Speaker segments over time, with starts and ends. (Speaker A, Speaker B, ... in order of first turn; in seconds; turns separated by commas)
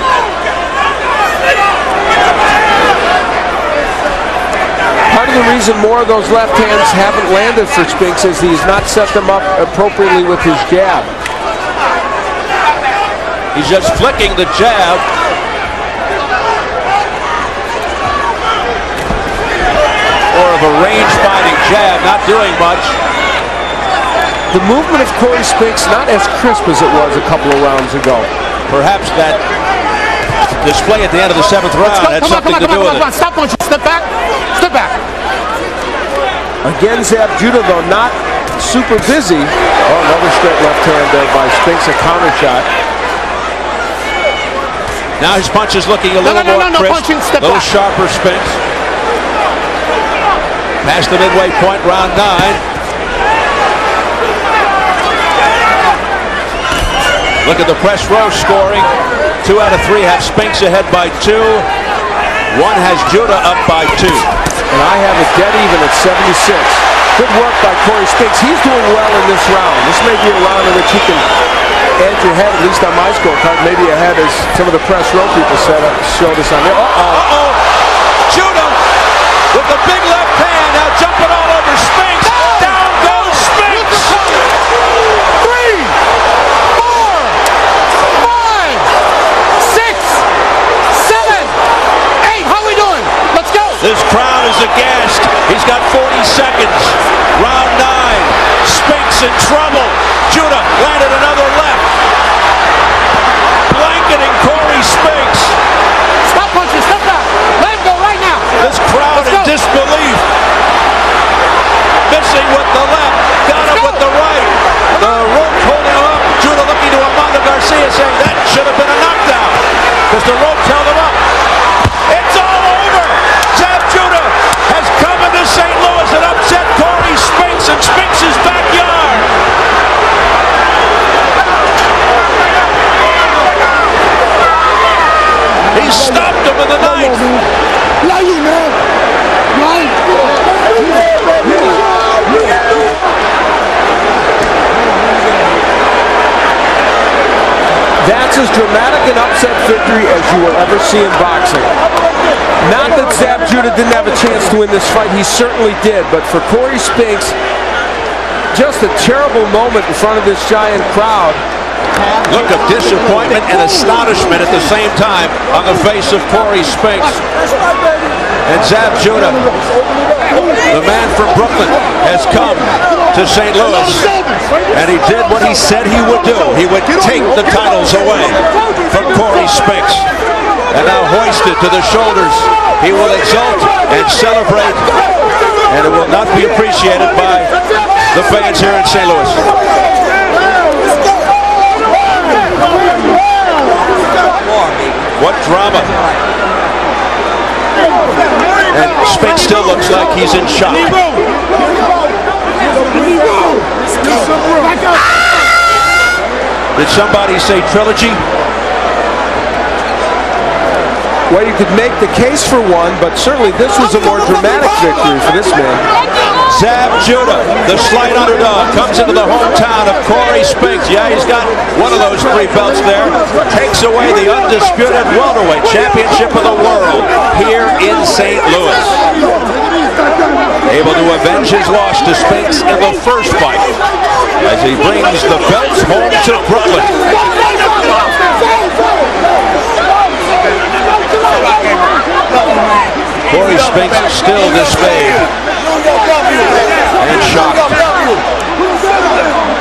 Speaker A: 5.1-11.1, Speaker B: 13.5-15.0, Speaker B: 20.3-23.0, Speaker A: 24.5-28.3, Speaker B: 28.7-29.4, Speaker B: 30.5-33.1, Speaker C: 31.8-35.0, Speaker A: 36.6-42.7, Speaker B: 45.2-48.6, Speaker C: 46.2-47.7, Speaker B: 50.8-52.6, Speaker B: 57.4-58.9, Speaker B: 59.4-61.7, Speaker B: 62.5-64.3, Speaker A: 64.7-71.2, Speaker A: 72.0-77.3, Speaker B: 77.0-77.6, Speaker B: 78.3-78.8, Speaker B: 79.5-84.2, Speaker C: 82.2-84.4, Speaker C: 85.4-85.9, Speaker C: 86.8-87.4, Speaker C: 88.1-88.9, Speaker C: 89.6-90.2, Speaker C: 90.9-91.6, Speaker C: 92.2-93.8, Speaker B: 93.8-101.9, Speaker B: 103.7-105.6, Speaker C: 106.2-109.5, Speaker B: 108.6-110.2, Speaker B: 112.1-121.2, Speaker C: 113.5-114.0, Speaker B: 122.1-129.3, Speaker B: 135.7-137.4, Speaker A: 148.0-151.8, Speaker A: 152.6-157.4, Speaker A: 158.5-161.4, Speaker B: 162.3-167.2, Speaker B: 168.5-169.5, Speaker B: 170.7-174.1, Speaker B: 174.7-180.1, Speaker B: 180.7-184.9, Speaker B: 185.7-187.5, Speaker B: 188.1-189.5, Speaker B: 195.2-196.0, Speaker B: 198.7-201.0, Speaker B: 206.8-208.2, Speaker A: 211.3-215.9, Speaker B: 216.5-229.0, Speaker B: 230.7-233.7, Speaker B: 234.4-237.0, Speaker B: 243.3-245.3, Speaker B: 247.0-247.9